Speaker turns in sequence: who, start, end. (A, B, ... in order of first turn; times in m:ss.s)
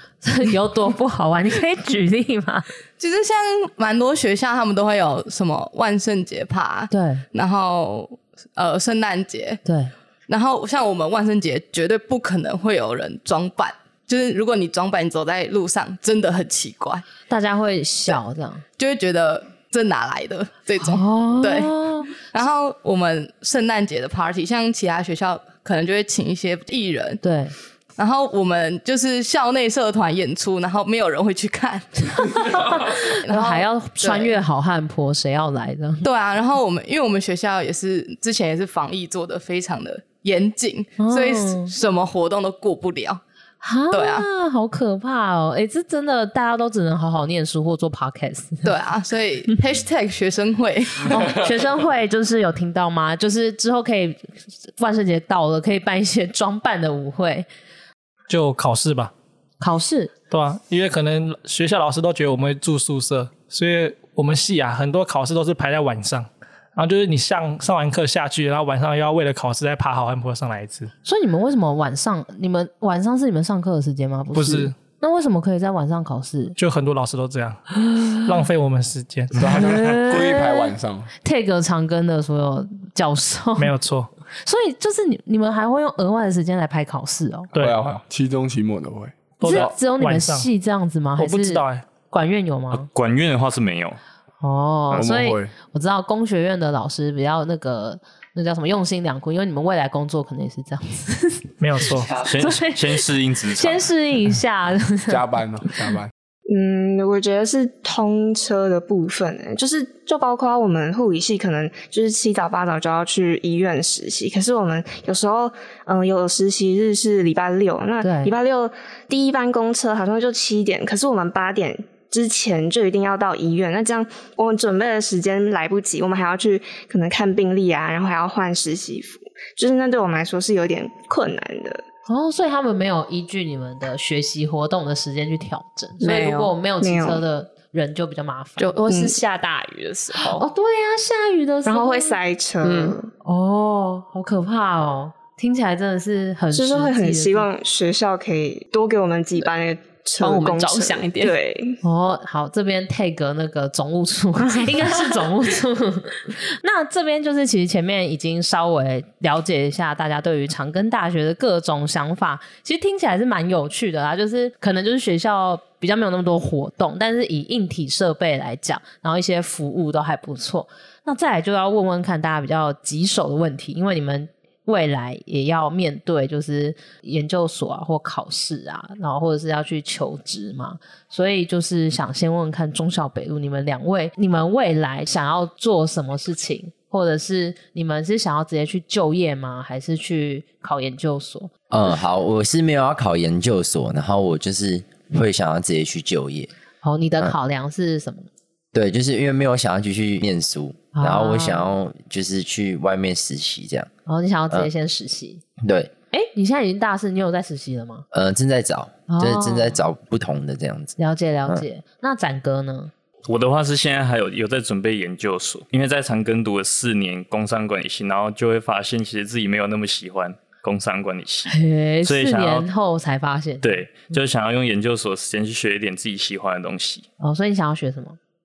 0:00.2-0:02.7 A
0:03.0-0:09.6 B
0:06.9-0:07.2 A
0:09.6-0:09.9 A
0:10.3-0:17.0 B
0:17.3-0:18.6 A
0:18.8-0:27.2 B
0:20.8-0:22.1 A
0:27.2-0:27.5 A
0:28.0-0:34.3 B
0:32.3-0:36.0 A
0:36.0-0:43.2 B
0:41.0-0:41.7 A
0:43.6-0:48.7 A
0:43.9-0:44.3 B
0:48.6-0:51.1 B
0:51.0-0:57.5 A
0:58.3-0:59.1 C
0:59.6-1:00.1 A
1:00.3-1:10.9 C
1:11.0-1:16.5 A
1:14.3-1:14.7 C
1:16.6-1:17.6 C
1:17.8-1:18.2 A
1:18.2-1:19.7 C
1:19.3-1:21.1 D
1:19.5-1:23.7 A
1:23.6-1:24.1 C
1:24.4-1:27.5 A
1:27.6-1:29.7 D
1:29.4-1:30.5 C
1:29.4-1:32.9 A
1:31.2-1:31.8 C
1:32.7-1:34.0 E
1:34.4-1:41.4 A
1:34.9-1:35.5 D
1:41.6-1:42.1 C
1:42.1-1:43.8 E
1:42.2-1:45.2 A
1:45.1-1:46.1 D
1:46.5-2:11.8 F
1:58.0-1:58.3 A
2:12.1-2:18.7 A
2:16.0-2:16.5 G
2:16.8-2:17.2 F
2:18.6-2:20.4 G
2:18.9-2:19.2 F
2:20.3-2:22.2 A
2:21.6-2:23.1 F
2:22.6-2:22.9 G
2:23.2-2:27.5 A
2:26.5-2:31.8 F
2:30.2-2:31.4 G
2:31.8-3:11.5 A
3:11.7-3:16.5 H
3:16.8-3:18.3 A
3:18.7-3:23.9 H
3:20.9-3:21.7 A
3:24.0-3:25.4 A
3:25.6-3:25.9 H
3:26.1-3:28.0 A
3:28.1-3:31.0 H
3:29.1-3:29.8 A
3:31.0-3:32.9 A
3:33.3-3:42.7 E
3:41.5-3:44.0 A
3:43.6-3:47.0 E
3:47.2-3:48.2 A